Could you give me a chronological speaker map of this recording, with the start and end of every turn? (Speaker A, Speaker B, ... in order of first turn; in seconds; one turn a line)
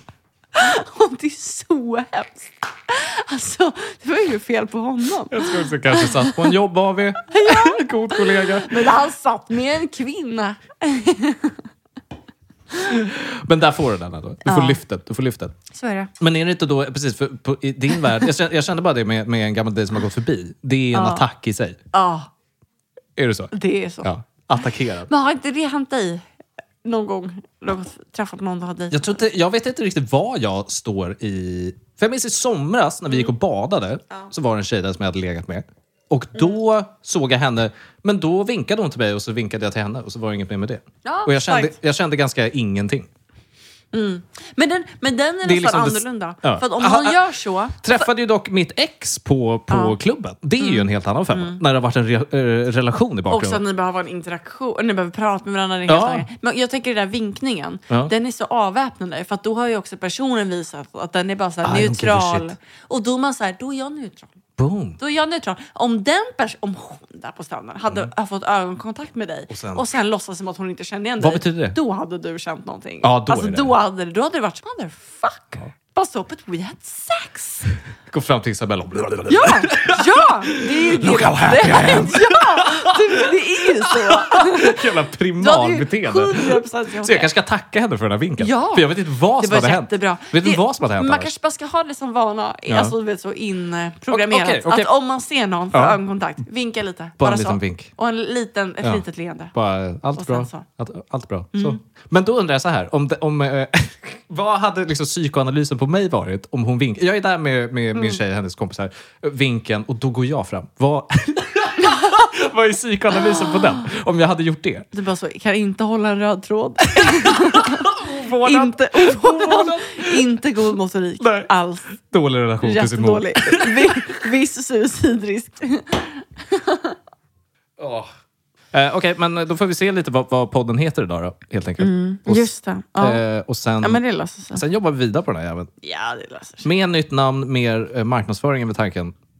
Speaker A: 0.5-6.5
Speaker B: 5.3-8.8
Speaker A: 7.3-11.7
Speaker B: 12.8-15.6
Speaker A: 14.4-14.8
Speaker A: 15.7-16.1
Speaker B: 16.2-21.8
Speaker A: 20.9-21.3
Speaker A: 21.9-22.3
Speaker B: 23.2-23.5
Speaker A: 23.5-24.1
Speaker B: 24.0-25.1
Speaker A: 25.1-26.2
Speaker A: 26.8-29.2
Speaker B: 28.9-43.1
Speaker A: 41.0-41.7
Speaker A: 43.9-48.1
Speaker B: 45.4-47.2
Speaker B: 47.8-53.6
Speaker A: 49.7-50.0
Speaker A: 50.6-51.6
Speaker A: 53.3-64.3
Speaker B: 55.9-56.3
Speaker B: 61.6-62.5
Speaker B: 64.6-65.0
Speaker A: 65.0-77.7
Speaker B: 69.5-69.8
Speaker B: 71.2-71.8
Speaker B: 73.0-73.8
Speaker B: 78.1-91.3
Speaker A: 79.3-87.3
Speaker A: 88.4-99.5
Speaker B: 92.7-92.9
Speaker B: 94.1-94.9
Speaker B: 95.7-96.0
Speaker B: 97.2-97.9
Speaker B: 98.8-114.9
Speaker A: 100.2-100.7
Speaker A: 111.8-112.2
Speaker A: 113.2-113.8
Speaker A: 114.9-121.9
Speaker B: 117.0-120.3
Speaker B: 121.2-124.2
Speaker A: 122.6-127.0
Speaker B: 127.8-128.1
Speaker B: 128.7-134.0
Speaker A: 131.8-133.2
Speaker A: 133.8-134.6
Speaker B: 134.5-135.7
Speaker A: 135.8-136.7
Speaker B: 136.6-139.1